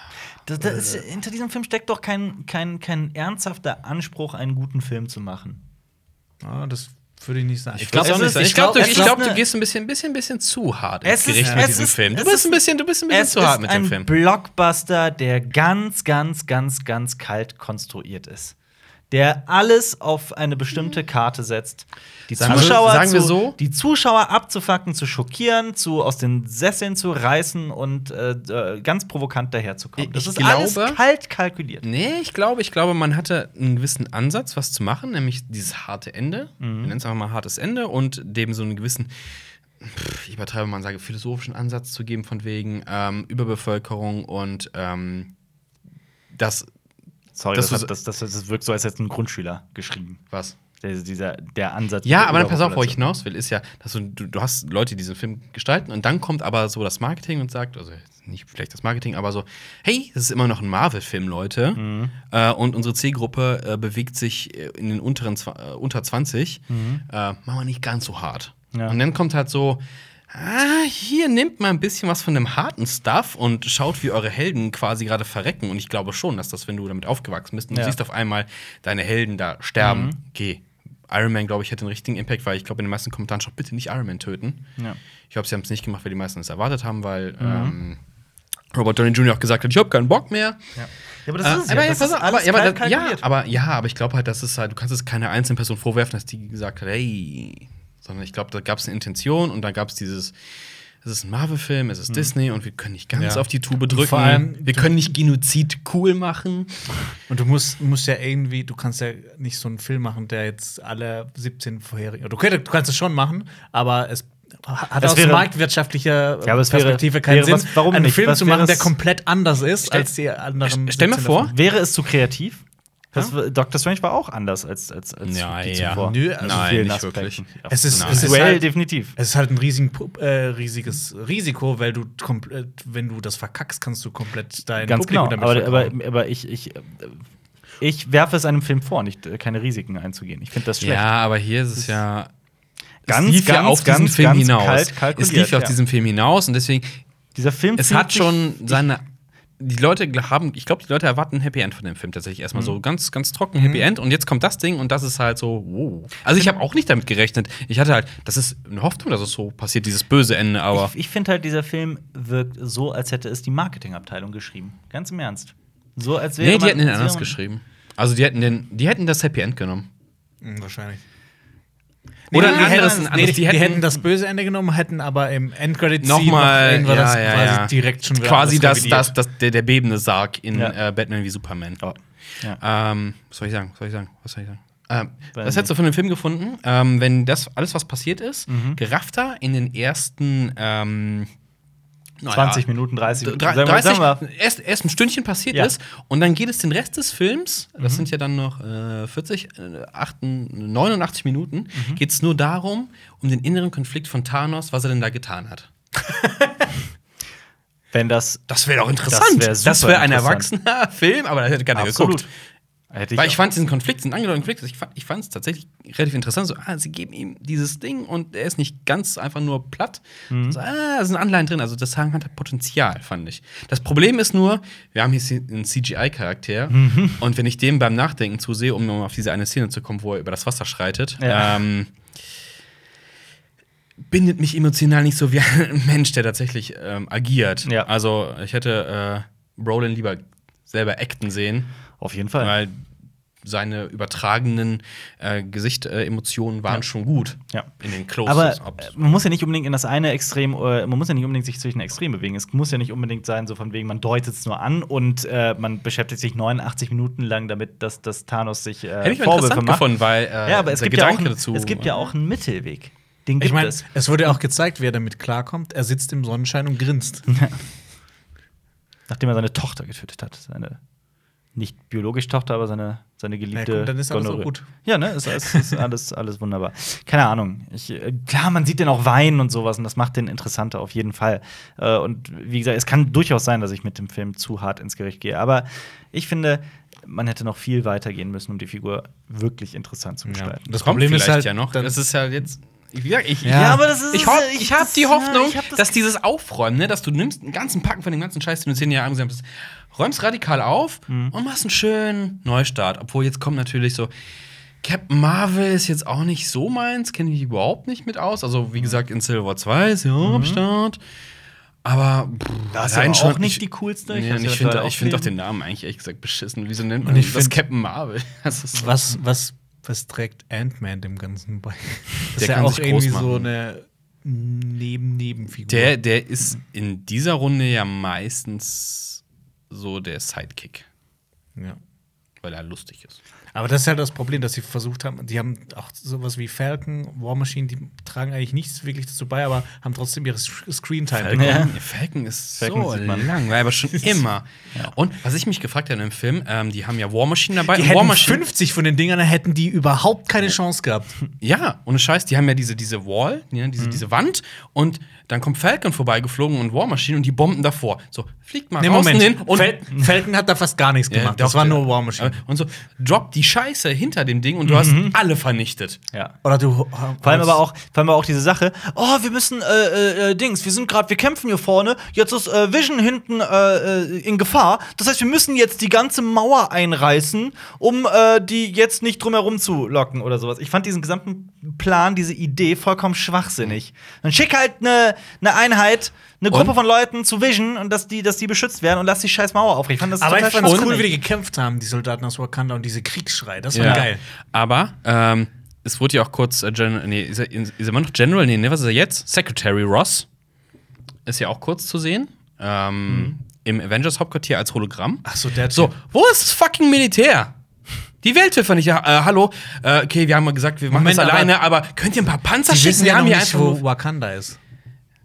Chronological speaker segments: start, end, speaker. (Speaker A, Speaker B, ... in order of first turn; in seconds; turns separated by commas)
Speaker A: 0.5-5.6, Speaker B: 0.7-1.0, Speaker C: 6.4-9.2, Speaker B: 7.8-14.1, Speaker A: 8.0-9.4, Speaker A: 11.0-18.6, Speaker C: 11.4-11.7, Speaker A: 19.1-31.9, Speaker B: 22.4-23.6, Speaker C: 22.5-22.8, Speaker B: 30.0-31.0, Speaker B: 31.8-39.1, Speaker A: 36.6-36.9, Speaker B: 39.8-45.3, Speaker B: 46.3-46.7, Speaker A: 47.4-50.2, Speaker B: 47.5-47.9, Speaker B: 50.3-50.6, Speaker A: 50.8-53.1, Speaker B: 52.0-84.7, Speaker A: 61.8-62.1, Speaker A: 66.7-67.0, Speaker A: 68.7-69.0, Speaker A: 77.7-78.0, Speaker A: 79.8-80.2, Speaker B: 85.3-88.0, Speaker A: 87.4-87.8, Speaker B: 88.7-90.6, Speaker A: 90.8-93.2, Speaker B: 91.4-100.4, Speaker B: 101.0-106.8, Speaker C: 103.1-105.0, Speaker C: 107.3-121.5, Speaker A: 115.0-115.5, Speaker A: 116.4-118.9, Speaker B: 120.6-121.5, Speaker A: 121.4-129.2, Speaker B: 125.3-128.4, Speaker C: 125.8-126.8, Speaker C: 127.7-135.9, Speaker A: 134.8-137.2, Speaker A: 137.8-141.1, Speaker B: 140.8-142.3, Speaker B: 143.1-147.0, Speaker A: 143.1-145.8, Speaker A: 147.3-148.8, Speaker B: 147.8-149.0, Speaker B: 149.6-160.9, Speaker A: 160.7-167.4, Speaker B: 166.4-169.9, Speaker C: 170.4-171.0, Speaker C: 172.3-179.1, Speaker B: 172.3-173.9, Speaker A: 172.4-172.9, Speaker B: 176.0-181.8, Speaker A: 181.8-182.6, Speaker B: 182.6-191.3, Speaker A: 185.3-185.7, Speaker A: 188.5-188.8, Speaker B: 192.2-205.7, Speaker A: 192.3-194.2, Speaker A: 197.8-198.1, Speaker A: 201.7-202.0, Speaker A: 207.9-208.4, Speaker B: 208.5-212.3, Speaker A: 209.1-210.5, Speaker A: 211.7-212.3, Speaker A: 212.9-213.4, Speaker B: 213.2-231.9, Speaker A: 220.3-220.6, Speaker A: 226.7-227.2, Speaker A: 231.2-231.6, Speaker B: 234.0-241.7, Speaker A: 242.0-242.6, Speaker B: 242.4-242.8, Speaker B: 243.4-248.9, Speaker A: 248.2-263.9, Speaker B: 259.0-262.0, Speaker C: 263.4-267.3, Speaker A: 267.3-267.6, Speaker A: 269.1-270.8, Speaker A: 271.6-290.6, Speaker C: 273.6-275.6, Speaker C: 290.3-292.0, Speaker B: 290.7-304.1, Speaker C: 293.4-293.8, Speaker A: 293.5-296.0, Speaker A: 301.1-301.3, Speaker B: 304.8-311.0, Speaker A: 310.2-310.6, Speaker B: 311.9-319.0, Speaker A: 312.7-315.3, Speaker C: 317.0-317.6, Speaker C: 318.7-326.0, Speaker B: 322.4-323.5, Speaker B: 325.7-330.9, Speaker B: 332.4-333.2, Speaker C: 333.5-341.7, Speaker B: 341.1-348.4, Speaker A: 341.4-341.7, Speaker A: 342.6-343.3, Speaker C: 347.6-351.2, Speaker B: 351.4-359.8, Speaker C: 358.8-362.4, Speaker B: 361.1-366.0, Speaker A: 364.6-365.2, Speaker C: 366.4-367.6, Speaker A: 367.2-391.1, Speaker C: 390.2-394.2, Speaker B: 393.7-400.3, Speaker A: 393.8-394.1, Speaker B: 401.3-407.6, Speaker A: 403.1-403.3, Speaker C: 405.2-405.9, Speaker B: 408.2-413.8, Speaker C: 410.9-411.6, Speaker C: 412.7-414.6